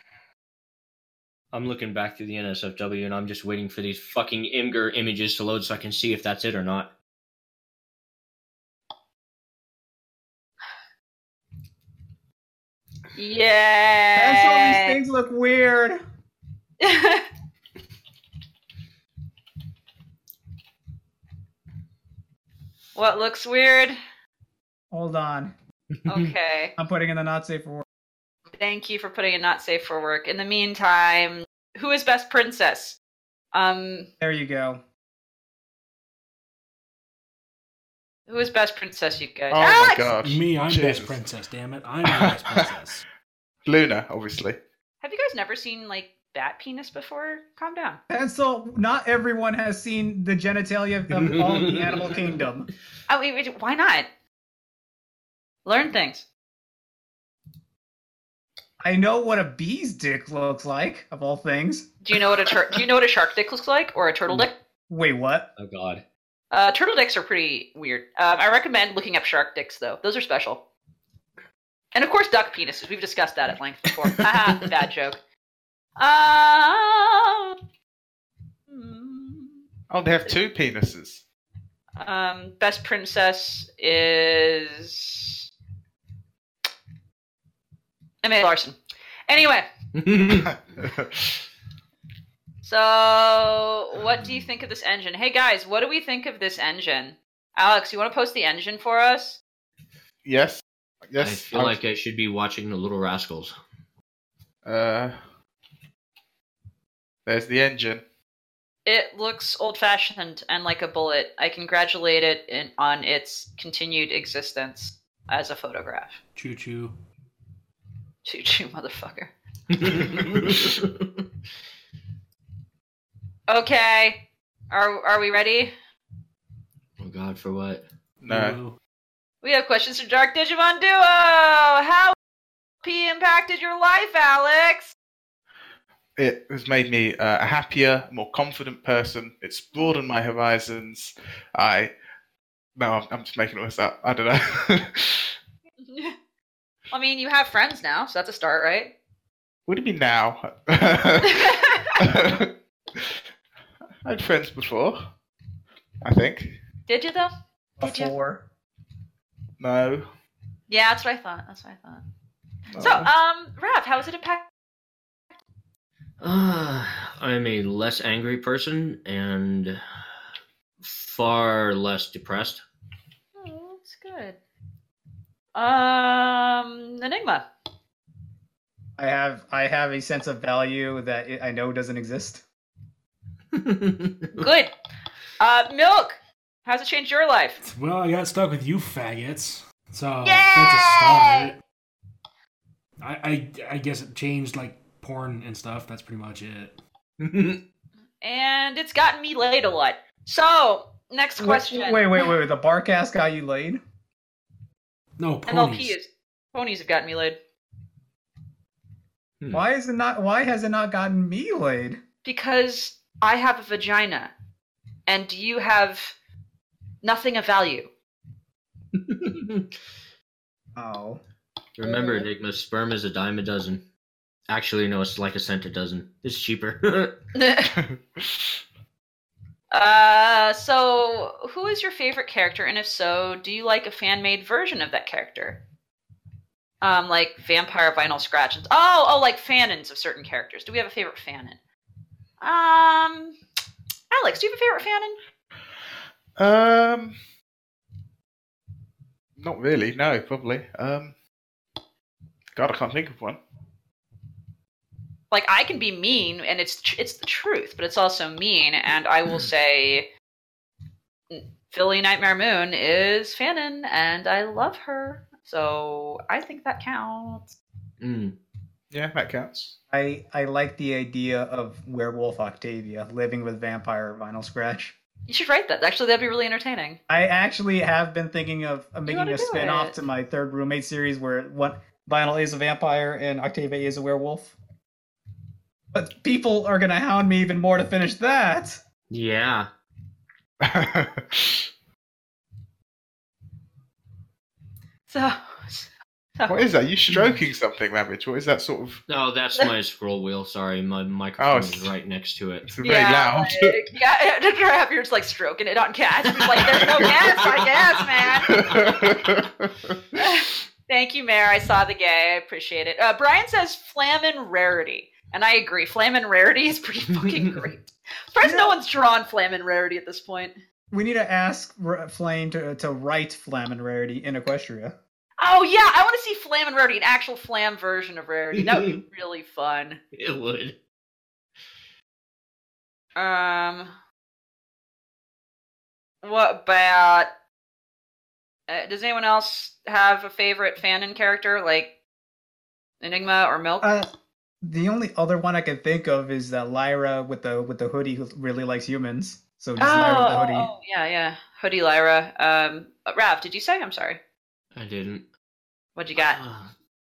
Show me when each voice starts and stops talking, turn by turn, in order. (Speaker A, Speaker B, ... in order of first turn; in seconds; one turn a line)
Speaker A: 1.5-6.9
Speaker B: 13.1-15.0
Speaker C: 14.1-16.0
Speaker B: 16.8-17.2
Speaker B: 22.9-24.0
Speaker C: 24.9-25.5
Speaker A: 26.0-26.3
Speaker B: 26.1-26.7
Speaker C: 26.8-27.8
Speaker B: 28.6-33.0
Speaker B: 33.5-34.1
Speaker C: 34.2-34.8
Speaker B: 38.3-40.1
Speaker D: 39.5-41.2
Speaker E: 40.2-43.0
Speaker D: 42.1-42.7
Speaker D: 43.6-44.6
Speaker B: 45.0-48.0
Speaker C: 48.1-52.7
Speaker A: 51.1-52.3
Speaker B: 53.1-54.1
Speaker B: 55.6-56.2
Speaker C: 58.8-61.9
Speaker B: 62.0-64.5
Speaker C: 64.3-65.5
Speaker A: 65.6-66.0
Speaker B: 66.5-70.6
Speaker B: 71.9-75.2
Speaker B: 76.0-77.5
Speaker B: 78.7-79.6
Speaker D: 79.9-81.2
Speaker B: 82.0-85.5
Speaker B: 88.2-88.8
Speaker B: 89.3-89.7
Speaker A: 89.9-90.5
Speaker D: 90.5-91.3
Speaker B: 92.6-99.4
Speaker D: 100.2-101.8
Speaker A: 101.2-103.5
Speaker D: 104.7-105.2
Speaker D: 107.2-108.0
Speaker B: 108.8-116.2
Speaker E: 116.3-116.9
Speaker B: 118.2-119.3
Speaker A: 119.7-120.9
Speaker B: 123.5-124.2
Speaker B: 124.7-125.7
Speaker A: 127.0-127.8
Speaker D: 128.2-128.6
Speaker E: 128.3-128.8
Speaker B: 129.4-132.1
Speaker B: 132.8-134.9
Speaker D: 136.2-141.9
Speaker D: 142.8-145.3
Speaker B: 145.8-146.1
Speaker B: 146.9-148.9
Speaker D: 149.7-153.2
Speaker B: 151.2-152.0
Speaker D: 154.0-155.1
Speaker D: 156.0-156.6
Speaker B: 156.9-157.3
Speaker C: 157.8-158.4
Speaker B: 157.8-158.1
Speaker D: 159.6-160.1
Speaker B: 160.7-162.0
Speaker D: 162.7-163.1
Speaker B: 162.8-164.4
Speaker A: 166.2-169.8
Speaker A: 170.8-172.6
Speaker B: 173.3-174.4
Speaker B: 175.5-177.4
Speaker C: 179.0-182.4
Speaker A: 183.5-184.5
Speaker B: 184.3-184.7
Speaker B: 185.4-187.6
Speaker E: 187.6-191.6
Speaker B: 190.2-191.5
Speaker E: 193.0-196.8
Speaker A: 197.2-197.6
Speaker B: 198.2-202.2
Speaker C: 201.4-203.8
Speaker E: 205.2-205.9
Speaker B: 205.5-207.4
Speaker C: 209.5-212.0
Speaker B: 212.2-214.3
Speaker B: 215.1-216.1
Speaker B: 217.0-217.9
Speaker A: 218.9-219.7
Speaker C: 220.7-221.2
Speaker A: 221.8-223.8
Speaker B: 221.8-222.2
Speaker A: 224.5-227.1
Speaker B: 227.3-227.7
Speaker D: 227.7-228.6
Speaker B: 229.7-235.6
Speaker B: 236.8-241.6
Speaker B: 242.4-243.3
Speaker B: 244.1-245.2
Speaker D: 246.4-247.2
Speaker D: 249.4-251.1
Speaker D: 252.6-253.4
Speaker B: 255.3-260.1
Speaker B: 261.3-267.6
Speaker A: 268.0-268.3
Speaker D: 268.9-269.8
Speaker C: 269.9-274.9
Speaker B: 275.3-277.0
Speaker C: 277.1-284.6
Speaker B: 279.1-280.0
Speaker C: 285.9-288.8
Speaker A: 289.1-289.7
Speaker D: 290.6-291.7
Speaker B: 295.1-296.6
Speaker D: 296.4-299.0
Speaker A: 299.1-302.7
Speaker D: 301.4-301.9
Speaker D: 302.6-303.8
Speaker B: 302.8-308.7
Speaker A: 306.5-308.8
Speaker D: 308.5-309.9
Speaker B: 310.1-320.5
Speaker C: 318.4-318.7
Speaker C: 320.9-324.9
Speaker B: 325.4-330.0
Speaker A: 328.5-329.0
Speaker A: 330.1-330.8
Speaker B: 333.1-333.9
Speaker B: 336.2-337.3
Speaker B: 338.7-341.9
Speaker B: 343.0-343.9
Speaker C: 343.8-344.1
Speaker C: 344.6-350.7
Speaker B: 349.8-354.2
Speaker A: 354.7-355.2
Speaker B: 355.9-356.4
Speaker A: 356.1-356.7